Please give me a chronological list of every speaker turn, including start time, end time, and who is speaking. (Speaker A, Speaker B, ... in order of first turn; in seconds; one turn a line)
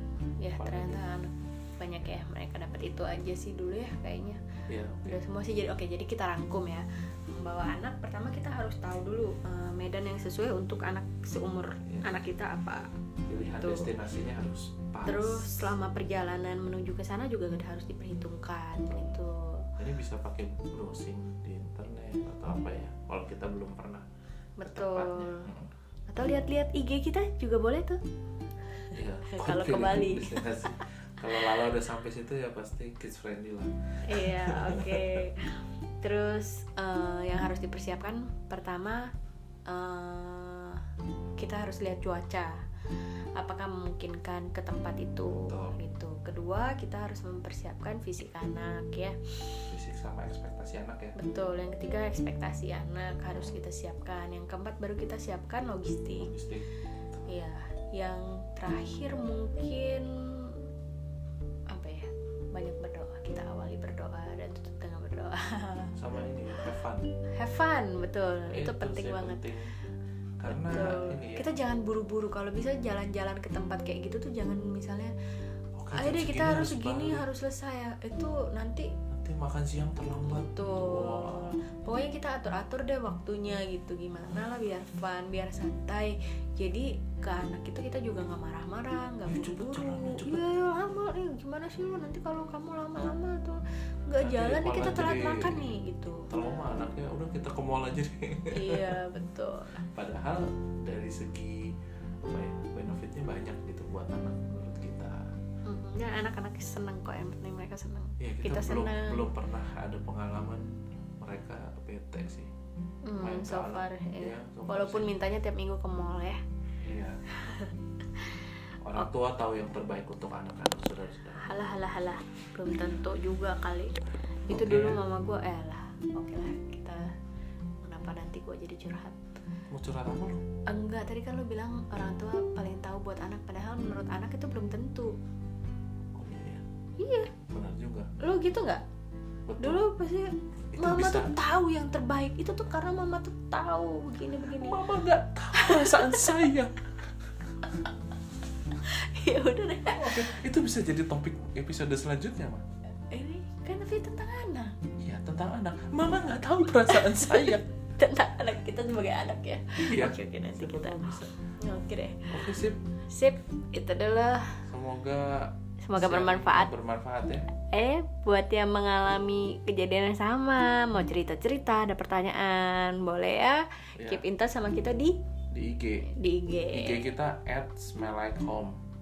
Speaker A: 0.4-4.4
Speaker B: 0.6-1.0
Speaker B: 4.7-5.2
Speaker A: 5.0-13.9
Speaker B: 11.9-12.2
Speaker B: 13.3-15.7
Speaker A: 15.1-19.7
Speaker B: 18.9-19.2
Speaker B: 19.8-24.1
Speaker A: 24.6-25.5
Speaker B: 24.7-25.7
Speaker A: 26.1-28.0
Speaker A: 28.8-30.8
Speaker B: 28.9-35.3
Speaker A: 34.0-39.1
Speaker A: 39.7-40.8
Speaker A: 41.4-49.6
Speaker B: 45.4-45.8
Speaker B: 49.7-51.1
Speaker A: 51.2-56.3
Speaker B: 56.2-57.3
Speaker A: 57.3-60.7
Speaker A: 61.7-65.9
Speaker B: 66.0-67.1
Speaker A: 67.4-69.4
Speaker B: 68.5-69.7
Speaker B: 70.4-71.5
Speaker A: 70.5-75.1
Speaker B: 75.8-77.2
Speaker A: 75.9-78.9
Speaker B: 79.1-81.5
Speaker A: 80.2-96.3
Speaker B: 89.3-90.5
Speaker B: 94.2-95.8
Speaker B: 96.3-99.0
Speaker A: 98.5-99.7
Speaker B: 99.8-101.7
Speaker B: 102.3-105.3
Speaker A: 105.7-109.3
Speaker B: 108.2-112.5
Speaker A: 113.0-116.4
Speaker B: 113.2-115.1
Speaker B: 116.8-117.2
Speaker A: 117.3-119.1
Speaker B: 118.8-121.5
Speaker A: 121.4-127.1
Speaker B: 124.5-125.0
Speaker A: 127.8-129.2
Speaker B: 129.7-130.4
Speaker A: 130.7-135.2
Speaker B: 136.2-136.6
Speaker A: 137.0-137.3
Speaker B: 137.5-138.1
Speaker A: 138.2-138.8
Speaker B: 139.5-139.9
Speaker A: 139.6-144.8
Speaker B: 140.7-141.3
Speaker B: 144.6-146.7
Speaker A: 145.6-146.5
Speaker A: 148.8-150.3
Speaker B: 149.8-152.6
Speaker A: 153.1-154.7
Speaker B: 155.0-157.6
Speaker A: 156.9-162.5
Speaker B: 159.8-161.3
Speaker B: 162.3-162.8
Speaker A: 163.1-164.7
Speaker B: 164.7-167.5
Speaker A: 165.8-166.7
Speaker A: 167.6-175.2
Speaker B: 174.0-174.2
Speaker B: 175.5-176.1
Speaker A: 176.0-177.0
Speaker B: 176.7-178.8